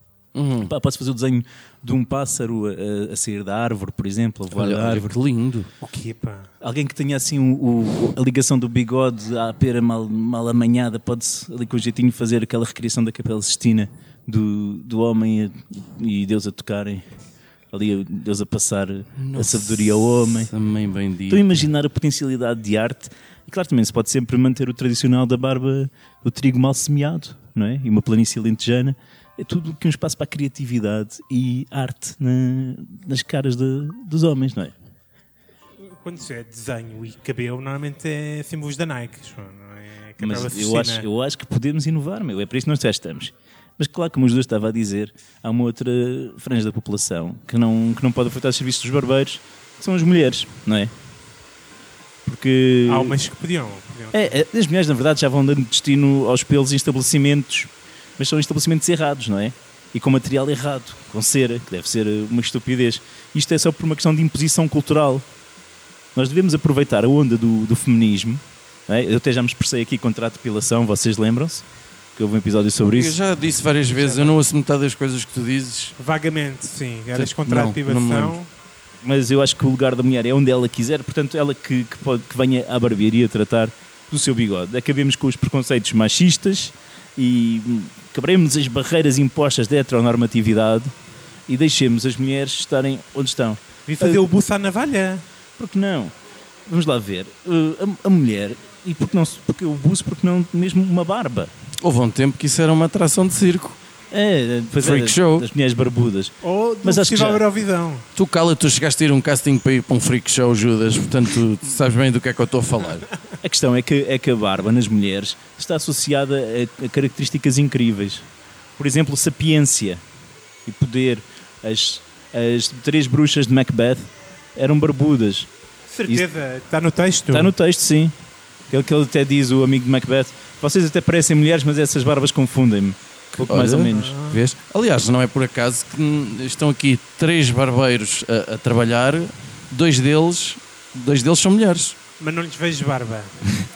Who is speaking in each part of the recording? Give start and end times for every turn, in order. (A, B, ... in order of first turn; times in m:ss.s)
0:00.3-0:00.7 A
0:00.6-0:05.1 B
0:04.5-0:05.7 A
0:05.8-0:06.5 C
0:06.6-0:17.0 B
0:17.7-0:20.5 B
0:19.2-0:21.7 A
0:21.3-0:34.7 B
0:35.8-0:41.0 C
0:40.2-0:50.9 B
0:52.2-0:53.2 B
0:52.9-0:54.3 C
0:54.1-1:05.3 B
1:06.1-1:11.6 B
1:12.2-1:13.2 B
1:12.9-1:16.0 A
1:14.0-1:14.4 C
1:16.0-1:18.5 C
1:17.1-1:18.4 A
1:19.0-1:30.9 B
1:31.5-1:34.2 B
1:33.9-1:35.2 C
1:35.6-1:36.1 B
1:36.6-1:41.5 B
1:41.8-1:43.8 A
1:44.1-1:47.4 B
1:44.8-1:45.5 A
1:46.4-1:48.0 C
1:48.1-1:53.1 A
1:53.4-1:58.2 B
1:58.8-2:00.0 B
2:00.6-2:05.5 B
2:05.9-2:07.5 C
2:07.3-2:08.1 B
2:08.7-2:14.1 B
2:13.4-2:22.0 A
2:13.9-2:14.4 C
2:22.2-2:23.4 C